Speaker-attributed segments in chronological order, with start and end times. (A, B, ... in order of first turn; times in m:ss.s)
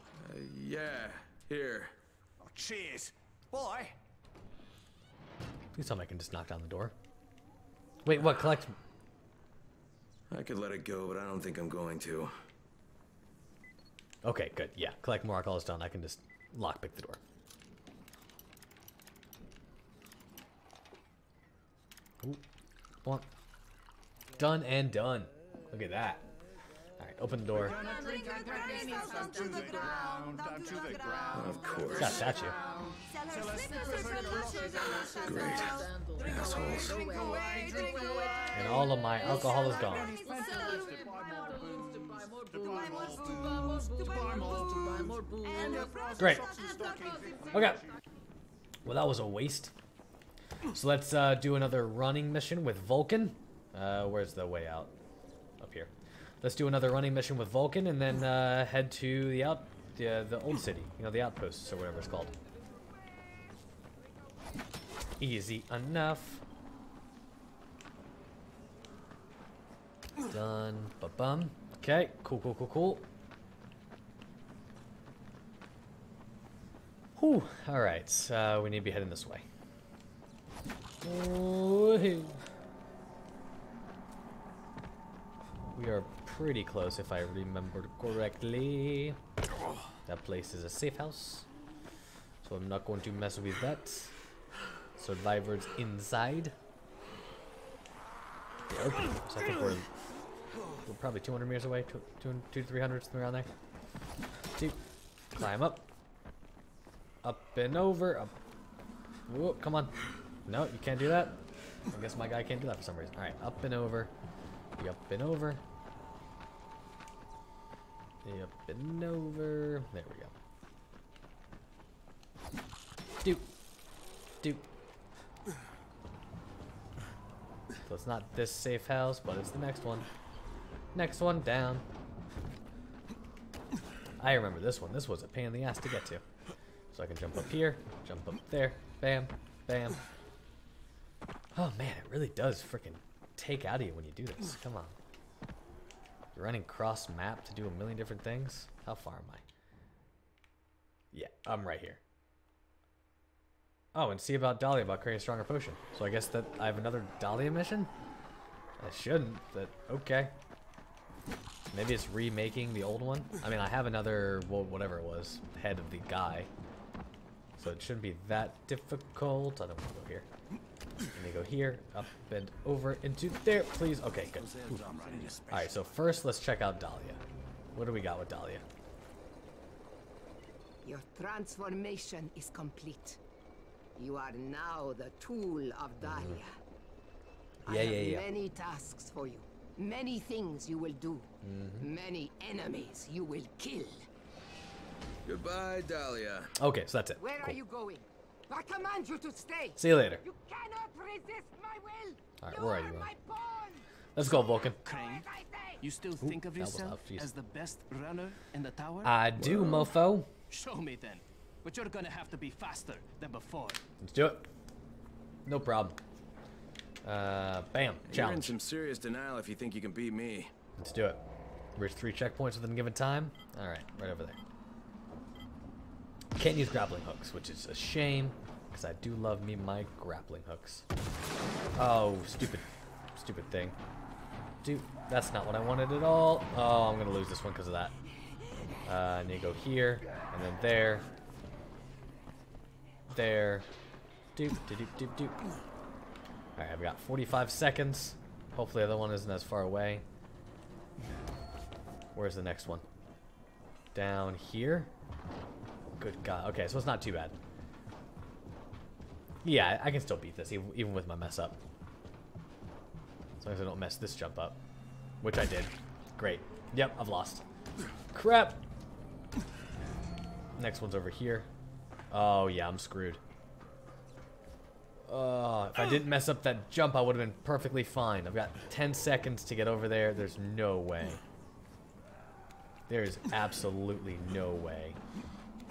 0:00.2-0:01.9 A
0:02.4-0:03.9 B
0:05.7-0:06.9 C
0:08.0-0:08.7 C
0:10.3-0:12.3 A
0:14.2-0:17.2 C
0:24.4-0:26.3 C
0:27.0-0:27.8 C
0:27.7-0:32.4 B
0:31.3-0:32.3 A
0:32.0-0:32.5 C
0:33.2-0:35.2 B
0:35.2-0:37.0 A
0:36.6-0:38.3 B
0:38.5-0:40.2 C
0:40.1-0:47.5 B
0:46.2-0:46.4 C
0:47.5-0:47.8 C
0:48.8-0:49.7 C
0:50.7-0:54.9 C
0:55.6-1:02.3 C
1:05.2-1:06.4 C
1:10.3-1:13.1 C
1:17.2-1:19.4 C
1:21.0-1:22.4 C
1:25.7-1:29.2 C
1:30.0-1:31.5 C
1:32.4-1:34.1 C
1:35.0-1:36.6 C
1:38.7-1:39.9 C
1:40.8-1:43.5 C
1:45.3-1:45.8 C
1:47.2-1:48.4 C
1:49.3-1:49.9 C
1:50.4-1:51.4 C
1:51.9-1:54.1 C
1:54.8-1:55.6 C
1:58.2-2:00.3 C
2:03.2-2:03.5 C
2:07.9-2:10.1 C
2:10.9-2:11.8 C
2:14.2-2:16.2 C
2:16.9-2:20.0 C
2:21.5-2:25.0 C
2:26.3-2:29.4 C
2:31.1-2:32.0 C
2:33.9-2:37.9 C
2:38.8-2:40.3 C
2:41.7-2:46.5 C
2:47.6-2:50.3 C
2:51.1-2:57.2 C
2:54.3-2:56.2 B
2:57.7-2:58.6 C
3:00.8-3:03.2 D
3:04.0-3:06.6 D
3:06.0-3:06.4 C
3:07.6-3:14.1 D
3:07.6-3:08.2 C
3:11.4-3:11.9 C
3:15.2-3:16.5 A
3:16.6-3:17.6 C
3:17.2-3:23.9 D
3:19.8-3:20.2 C
3:22.4-3:23.1 C
3:24.1-3:24.8 C
3:24.8-3:25.3 E
3:24.8-3:25.8 D
3:25.8-3:29.2 E
3:26.2-3:27.3 C
3:29.0-3:30.3 C
3:29.4-3:29.9 A
3:30.5-3:33.8 E
3:34.0-3:34.4 C
3:35.4-3:36.0 C
3:37.0-3:38.6 C
3:38.1-3:40.5 A
3:40.8-3:41.2 C
3:41.8-3:44.4 C
3:46.4-3:50.8 C
3:51.8-3:53.8 C
3:54.6-3:57.9 C
3:58.8-4:01.1 C
4:03.1-4:03.7 C
4:04.3-4:05.4 C
4:06.6-4:10.0 C
4:12.1-4:12.8 C
4:13.9-4:14.9 C
4:16.0-4:17.4 C
4:19.4-4:21.6 C
4:23.4-4:24.6 C
4:25.2-4:27.4 C
4:28.1-4:28.6 C
4:30.6-4:31.5 C
4:32.1-4:33.2 C
4:35.0-4:41.2 C
4:42.9-4:45.0 C